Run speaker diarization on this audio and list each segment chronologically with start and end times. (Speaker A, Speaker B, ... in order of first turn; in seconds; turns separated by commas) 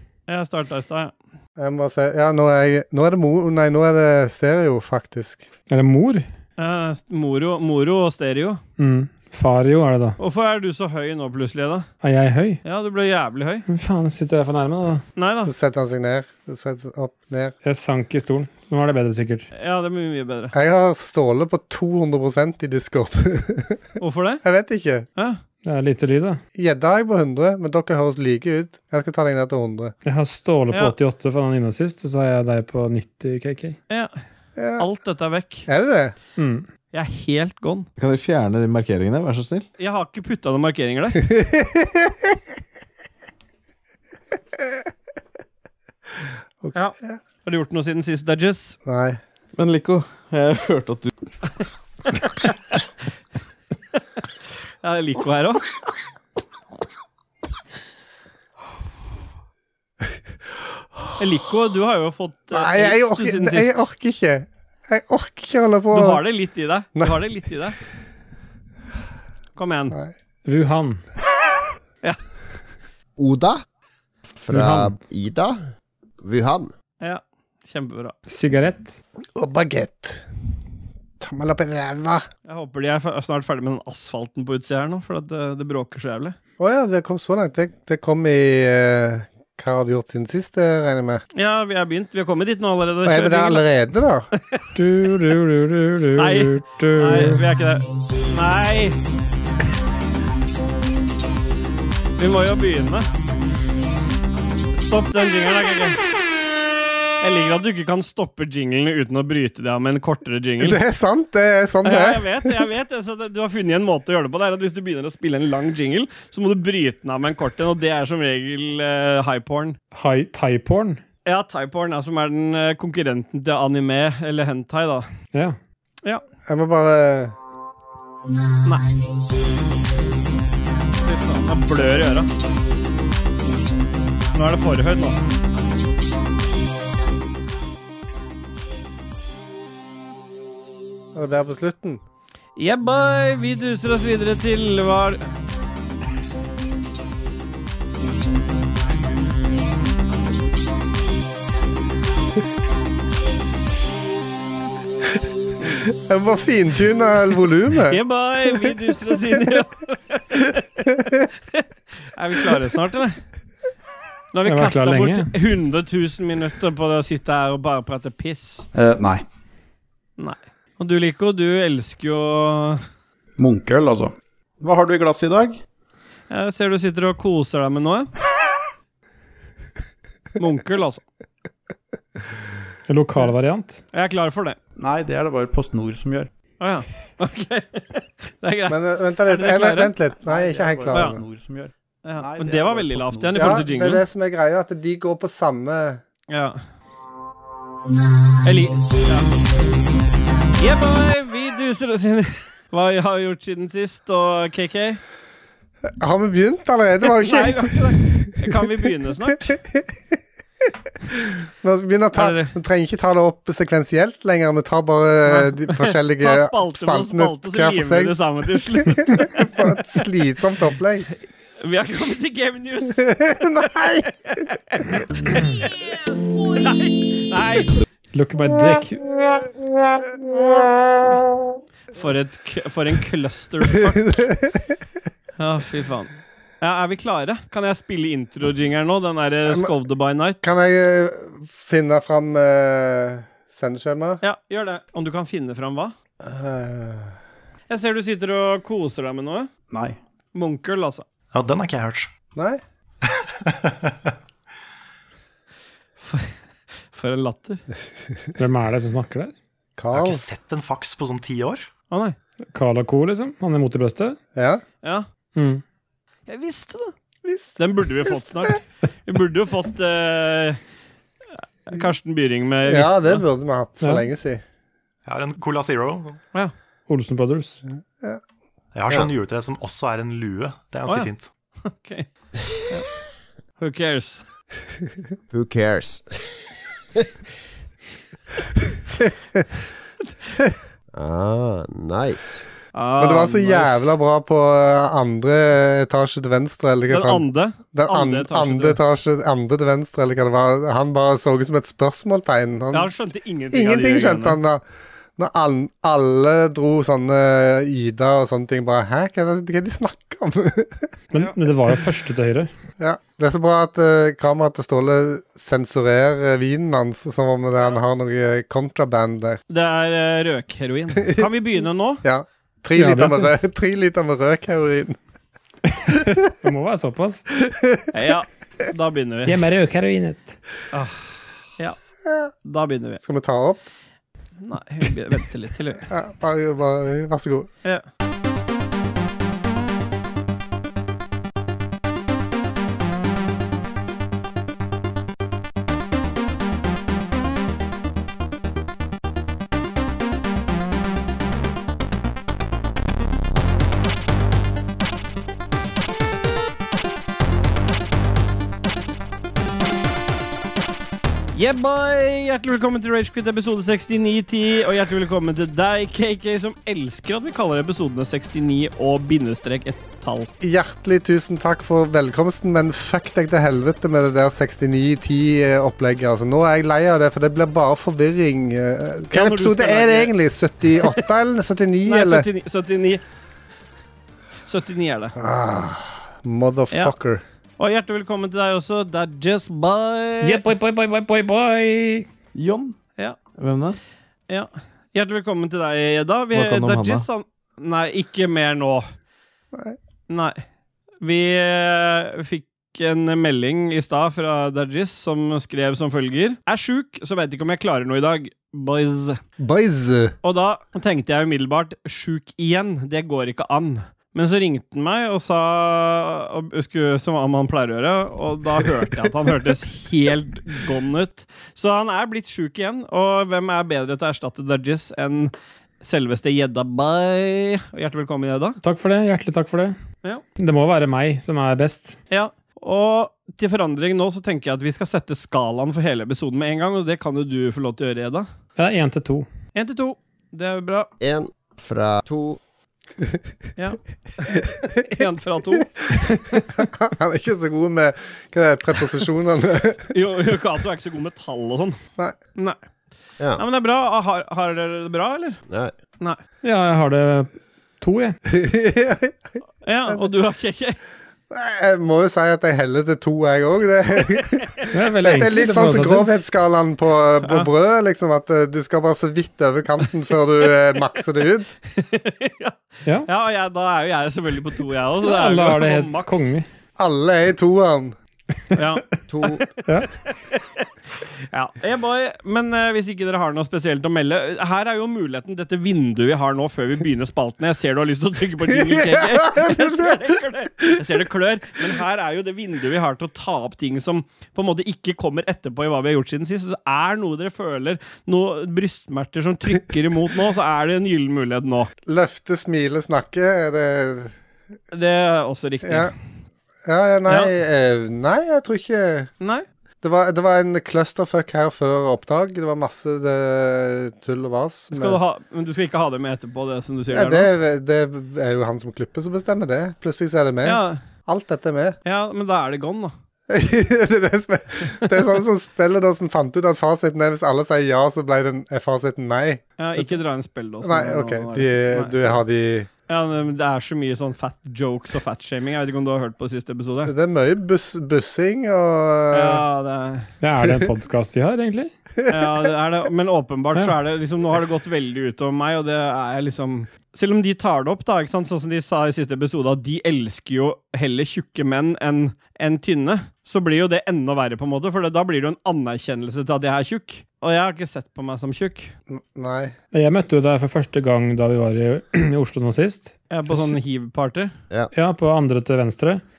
Speaker A: 0.3-1.1, Speaker B: 1.6-5.5, Speaker C: 5.7-6.3, Speaker A: 6.6-8.6, Speaker C: 8.8-10.2, Speaker A: 10.2-11.9, Speaker C: 12.0-12.6, Speaker A: 12.6-13.7, Speaker C: 13.7-15.0, Speaker A: 15.2-15.5, Speaker B: 15.4-17.5, Speaker C: 17.6-19.5, Speaker A: 19.5-20.5, Speaker B: 20.5-23.8, Speaker A: 24.0-24.4, Speaker B: 24.4-25.1, Speaker C: 25.6-26.4, Speaker B: 26.6-29.9, Speaker C: 30.1-33.8, Speaker B: 34.6-34.9, Speaker A: 34.8-35.7, Speaker B: 35.7-36.1, Speaker C: 36.4-36.7, Speaker A: 36.9-37.9, Speaker D: 38.0-39.6, Speaker A: 39.8-41.2, Speaker B: 41.2-42.4, Speaker B: 46.6-47.2, Speaker A: 46.8-48.8, Speaker B: 48.9-49.2, Speaker D: 49.6-51.1, Speaker A: 54.8-55.6, Speaker A: 61.2-63.7, Speaker B: 62.5-66.2, Speaker A: 65.9-67.8, Speaker A: 69.6-70.0, Speaker C: 70.5-71.0, Speaker E: 73.2-73.6, Speaker E: 74.3-75.6, Speaker C: 74.5-74.9, Speaker E: 76.2-76.7, Speaker A: 77.0-78.2, Speaker C: 78.3-79.0, Speaker B: 79.4-80.3, Speaker B: 81.2-82.3, Speaker A: 82.5-86.4, Speaker B: 86.6-91.2, Speaker A: 91.3-93.6, Speaker B: 93.0-94.3, Speaker C: 94.8-97.4, Speaker A: 96.2-99.0, Speaker A: 102.2-103.1, Speaker A: 104.8-106.0, Speaker A: 107.2-110.8, Speaker B: 110.6-112.6, Speaker A: 111.8-119.8, Speaker C: 119.9-121.0, Speaker A: 121.2-125.1, Speaker B: 126.5-127.3, Speaker A: 131.0-132.3, Speaker A: 134.3-135.2, Speaker B: 141.1-142.0, Speaker A: 142.6-145.2, Speaker B: 155.9-158.0, Speaker A: 157.9-161.0, Speaker A: 161.5-163.2, Speaker A: 164.3-168.7, Speaker C: 164.5-165.3, Speaker F: 168.7-169.2, Speaker A: 170.2-172.8, Speaker F: 173.4-175.6, Speaker A: 176.3-178.1, Speaker A: 180.4-181.0, Speaker C: 182.9-183.8, Speaker A: 183.9-184.6, Speaker F: 184.8-186.3, Speaker A: 186.6-189.9, Speaker B: 188.7-191.2, Speaker F: 190.2-193.6, Speaker A: 190.9-191.2, Speaker A: 192.0-194.0, Speaker B: 193.3-196.0, Speaker A: 196.3-196.6, Speaker A: 198.4-199.3, Speaker A: 200.6-205.0, Speaker B: 205.9-208.4, Speaker A: 207.0-209.4, Speaker B: 209.4-210.2, Speaker B: 211.6-221.1, Speaker A: 212.2-212.5, Speaker A: 215.3-219.7, Speaker A: 221.6-223.1, Speaker B: 223.0-224.1, Speaker A: 223.7-227.8, Speaker C: 228.1-229.0, Speaker A: 231.9-234.2, Speaker B: 233.9-234.8, Speaker A: 235.4-240.4, Speaker B: 240.4-244.2, Speaker A: 244.2-246.0, Speaker B: 246.2-247.2, Speaker A: 247.7-249.5, Speaker F: 249.7-250.0, Speaker A: 250.3-251.1, Speaker G: 251.3-252.1, Speaker B: 252.3-252.6, Speaker G: 253.2-254.1, Speaker A: 256.0-256.4, Speaker A: 256.9-257.6, Speaker C: 258.4-259.3, Speaker B: 259.8-260.2, Speaker G: 259.9-261.7, Speaker A: 261.9-262.2, Speaker C: 262.5-264.2, Speaker B: 264.4-264.6, Speaker C: 265.4-265.6, Speaker A: 266.3-266.9, Speaker B: 267.2-268.5, Speaker A: 267.6-270.6, Speaker A: 271.7-273.2, Speaker B: 272.7-274.4, Speaker G: 275.1-276.2, Speaker C: 276.9-277.6, Speaker G: 278.7-281.3, Speaker A: 281.6-282.1, Speaker A: 283.6-284.2, Speaker E: 285.3-286.3, Speaker E: 290.9-292.5, Speaker A: 292.8-293.9, Speaker B: 293.0-302.9, Speaker A: 296.9-298.8, Speaker A: 302.7-304.4, Speaker B: 303.5-304.6, Speaker B: 305.2-310.9, Speaker C: 311.1-312.5, Speaker B: 312.8-319.4, Speaker A: 319.5-322.0, Speaker B: 322.0-325.0, Speaker C: 322.8-323.3, Speaker C: 325.9-327.2, Speaker B: 327.5-327.9, Speaker A: 327.9-329.4, Speaker C: 329.3-330.4, Speaker A: 330.7-331.8, Speaker B: 332.1-332.3, Speaker A: 332.4-333.0, Speaker B: 333.0-333.6, Speaker A: 334.4-335.9, Speaker B: 335.9-337.5, Speaker A: 361.3-370.3, Speaker B: 370.4-382.3, Speaker A: 379.1-380.1, Speaker A: 380.7-381.0, Speaker A: 381.9-383.0, Speaker A: 384.5-385.1, Speaker B: 385.2-387.2, Speaker A: 387.6-390.5, Speaker C: 390.2-392.1, Speaker D: 392.4-392.8, Speaker D: 393.4-393.8, Speaker A: 394.3-398.9, Speaker D: 396.3-397.1, Speaker A: 400.1-400.4, Speaker A: 401.0-409.2, Speaker B: 409.4-410.2, Speaker A: 410.2-428.6, Speaker C: 428.6-429.8, Speaker C: 430.4-432.0, Speaker A: 432.1-438.3, Speaker C: 438.6-439.3, Speaker A: 439.6-440.9, Speaker E: 441.0-442.4, Speaker A: 443.6-445.7, Speaker B: 445.6-449.9, Speaker A: 449.9-451.8, Speaker A: 453.4-455.4, Speaker E: 455.5-455.7, Speaker C: 456.4-458.2, Speaker B: 458.3-459.2, Speaker A: 459.6-460.8, Speaker B: 461.3-464.5, Speaker C: 464.7-466.1, Speaker B: 465.0-471.5, Speaker A: 471.7-476.3, Speaker C: 475.0-476.5, Speaker B: 476.8-478.0, Speaker A: 478.5-478.9, Speaker E: 479.1-479.4, Speaker A: 481.3-501.7, Speaker B: 488.5-490.1, Speaker B: 501.9-504.1, Speaker A: 504.7-505.9, Speaker B: 505.6-505.9, Speaker B: 506.6-509.1, Speaker B: 509.8-515.0, Speaker A: 514.7-517.3, Speaker B: 516.9-521.8, Speaker A: 520.4-520.8, Speaker A: 521.9-522.9, Speaker B: 523.3-530.0, Speaker A: 529.6-532.2, Speaker B: 530.6-532.7, Speaker A: 532.9-536.9, Speaker B: 536.9-539.4, Speaker A: 539.1-540.1, Speaker C: 540.2-541.7, Speaker B: 542.0-542.5, Speaker A: 542.1-558.7, Speaker B: 558.9-559.5, Speaker C: 559.7-563.6, Speaker A: 563.1-564.3, Speaker C: 564.7-566.0